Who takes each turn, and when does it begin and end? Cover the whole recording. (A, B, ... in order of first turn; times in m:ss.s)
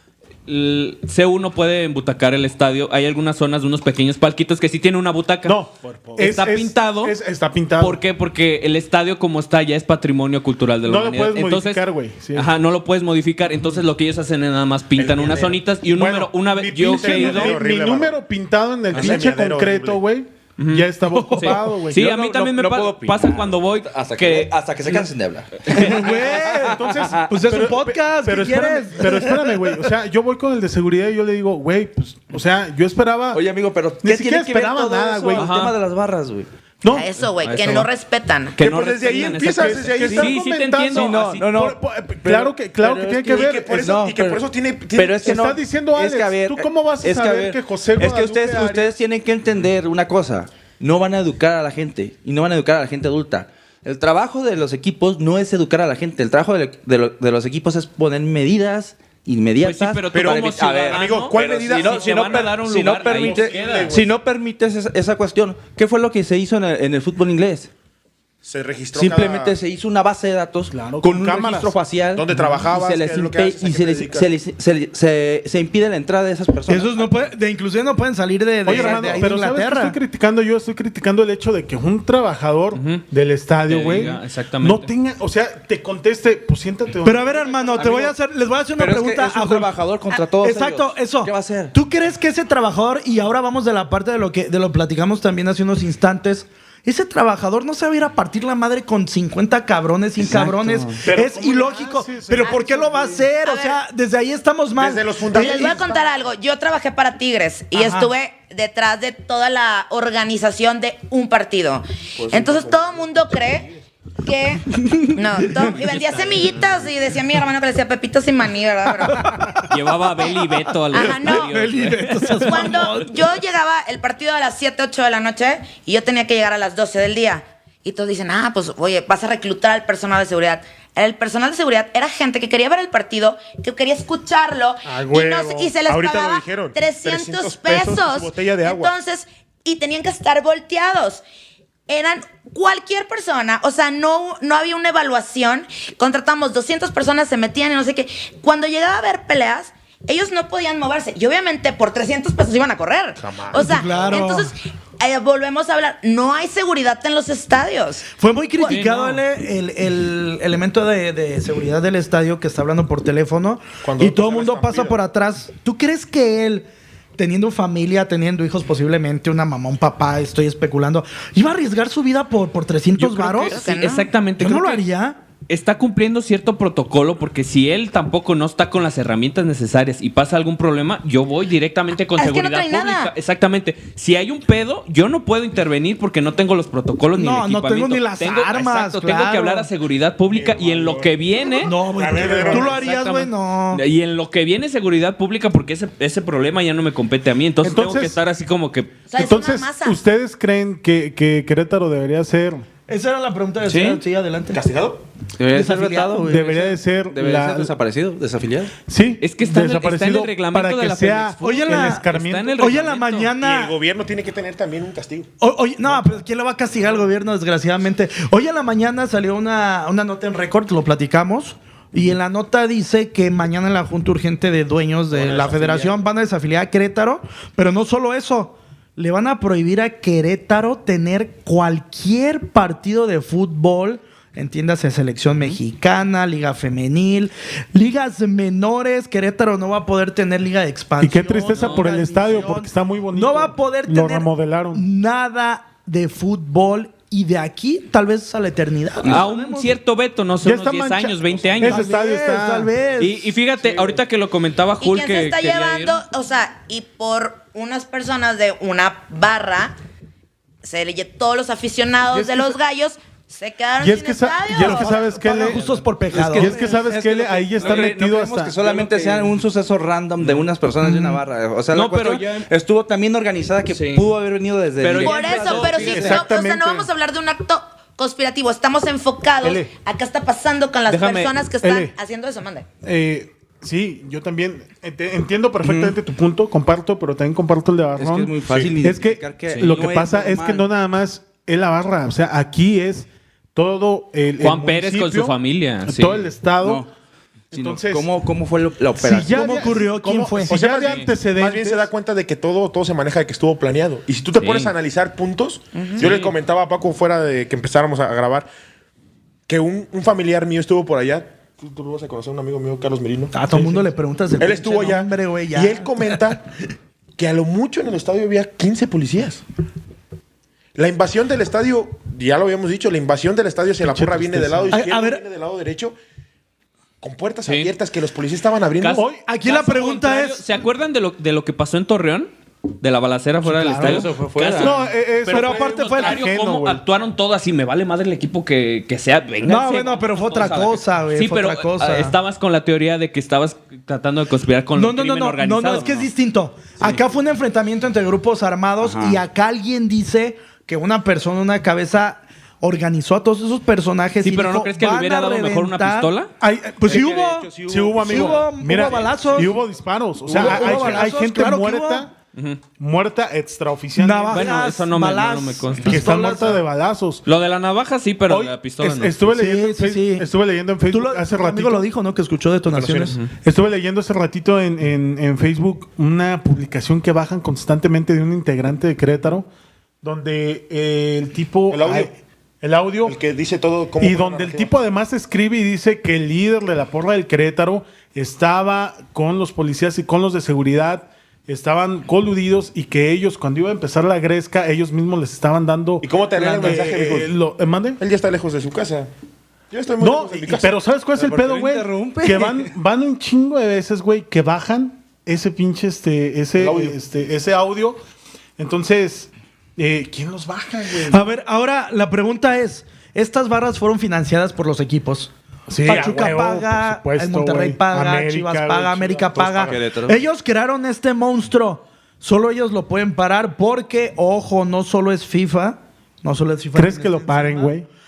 0:00.5-0:05.6 A
0:05.4-0:08.0 B
0:06.2-0:07.1 A
0:07.8-0:11.8 A
0:10.8-0:12.5 B
0:12.3-0:17.6 A
0:15.0-0:15.5 C
0:15.9-0:22.2 B
0:16.9-0:18.2 C
0:18.9-0:20.0 C
0:20.6-0:24.5 A
0:21.1-0:21.6 D
0:22.0-0:27.2 E
0:25.6-0:26.2 A
0:25.6-0:29.8 D
0:26.4-0:33.4 B
0:33.3-0:36.5 E
0:34.0-0:35.5 B
0:35.3-0:35.7 A
0:36.8-0:37.1 B
0:36.8-0:38.6 F
0:37.3-0:37.9 A
0:38.5-0:41.4 A
0:38.6-0:40.3 C
0:39.4-0:43.9 B
0:40.9-1:07.7 E
0:43.3-0:45.5 C
0:45.2-0:48.9 B
0:59.6-1:03.9 A
1:00.1-1:02.5 C
1:03.1-1:04.1 C
1:08.4-1:09.6 C
1:08.9-1:17.3 E
1:10.7-1:11.7 B
1:12.1-1:14.3 C
1:16.7-1:20.0 D
1:18.6-1:27.9 B
1:18.7-1:19.1 E
1:22.7-1:23.0 A
1:23.6-1:24.9 A
1:27.0-1:46.0 D
1:27.7-1:28.1 E
1:28.8-1:31.7 E
1:40.2-1:40.9 A
1:41.0-1:42.6 B
1:42.4-1:43.8 F
1:44.8-1:45.9 C
1:45.3-1:53.7 F
1:47.7-1:48.1 D
1:52.2-1:52.9 C
1:54.2-1:59.3 F
1:54.9-1:55.5 D
1:55.7-1:56.6 A
1:59.1-1:59.7 D
1:59.7-2:02.7 A
2:00.9-2:01.7 F
2:01.0-2:03.2 D
2:02.4-2:21.2 F
2:14.8-2:18.9 C
2:21.9-2:38.0 F
2:33.2-2:34.2 C
2:33.5-2:34.5 D
2:38.2-2:53.6 D
2:38.6-2:39.2 A
2:43.8-2:45.0 C
2:53.0-2:54.8 A
2:53.4-2:54.1 F
2:54.4-2:55.2 D
2:55.5-3:18.9 A
3:02.2-3:03.1 F
3:07.2-3:09.7 D
3:10.3-3:12.9 C
3:11.6-3:13.8 D
3:17.6-3:18.2 B
3:19.1-3:20.0 F
3:19.2-3:22.6 B
3:22.9-3:24.6 D
3:23.6-3:24.0 E
3:24.5-3:25.0 C
3:25.4-3:28.7 E
3:25.5-3:26.4 D
3:26.2-3:27.7 B
3:28.9-3:32.6 B
3:29.2-3:33.3 A
3:31.4-3:33.7 D
3:33.4-3:35.3 C
3:35.4-4:09.7 D
3:45.1-3:45.9 E
4:01.0-4:04.8 B
4:01.5-4:01.8 A
4:09.0-4:11.9 A
4:10.4-4:12.7 B
4:11.6-4:13.3 D
4:13.0-4:16.0 A
4:14.8-4:19.7 F
4:20.6-4:24.9 F
4:22.1-4:22.5 E
4:23.8-4:25.6 B
4:24.6-4:26.7 D
4:25.5-4:36.2 E
4:26.2-4:28.6 B
4:31.7-4:32.5 A
4:33.7-4:34.1 A
4:34.8-4:36.2 A
4:35.0-4:42.7 F
4:35.9-4:36.9 B
4:39.4-4:39.7 B
4:40.9-4:41.3 A
4:41.6-4:41.9 B
4:42.8-4:56.8 B
4:45.6-4:46.0 E
4:48.0-4:50.6 E
4:54.4-4:56.2 A
4:56.6-4:56.9 E
4:57.5-4:58.1 B
4:57.5-4:59.7 E
4:59.0-5:01.9 B
4:59.2-5:00.6 D
5:00.5-5:08.5 C
5:00.8-5:01.1 A
5:04.4-5:04.7 A
5:05.7-5:06.1 F
5:06.0-5:06.3 A
5:09.5-5:13.8 C
5:13.3-5:16.2 D
5:14.4-5:16.5 C
5:17.2-5:19.4 C
5:20.8-5:26.0 C
5:23.8-5:24.8 B
5:24.7-5:25.2 D
5:27.0-5:29.0 C
5:27.4-5:27.7 A
5:28.8-5:45.9 A
5:28.9-5:29.2 B
5:29.3-5:30.4 D
5:33.4-5:36.8 B
5:33.7-5:34.7 E
5:35.3-5:36.3 D
5:39.4-5:42.1 D
5:44.8-5:56.1 D
5:48.8-5:49.2 E
5:54.2-5:56.3 A
5:56.4-5:57.1 B
5:56.8-5:59.5 D
5:56.9-5:59.1 E
5:57.6-6:02.1 B
6:00.3-6:02.1 D
6:00.4-6:01.0 E
6:02.3-6:02.6 A
6:02.8-6:04.6 B
6:04.0-6:06.6 D
6:04.3-6:06.0 A
6:05.8-6:07.2 B
6:07.2-6:09.1 A
6:08.3-6:11.8 B
6:09.3-6:10.3 D
6:10.9-6:13.2 D
6:12.7-6:13.2 C
6:13.4-6:19.5 B
6:20.0-6:23.2 B
6:21.7-6:22.1 C
6:23.0-6:24.7 C
6:24.0-6:38.0 B
6:36.0-6:37.3 C
6:36.4-6:36.7 E
6:38.0-6:39.1 C
6:39.7-6:40.8 C
6:40.0-6:48.0 B
6:41.2-6:42.7 E
6:46.6-6:47.0 C
6:48.6-6:51.2 B
6:51.1-6:55.3 D
6:55.7-6:59.8 B
6:55.8-7:07.7 D
6:59.6-7:00.2 E
7:06.7-7:07.9 B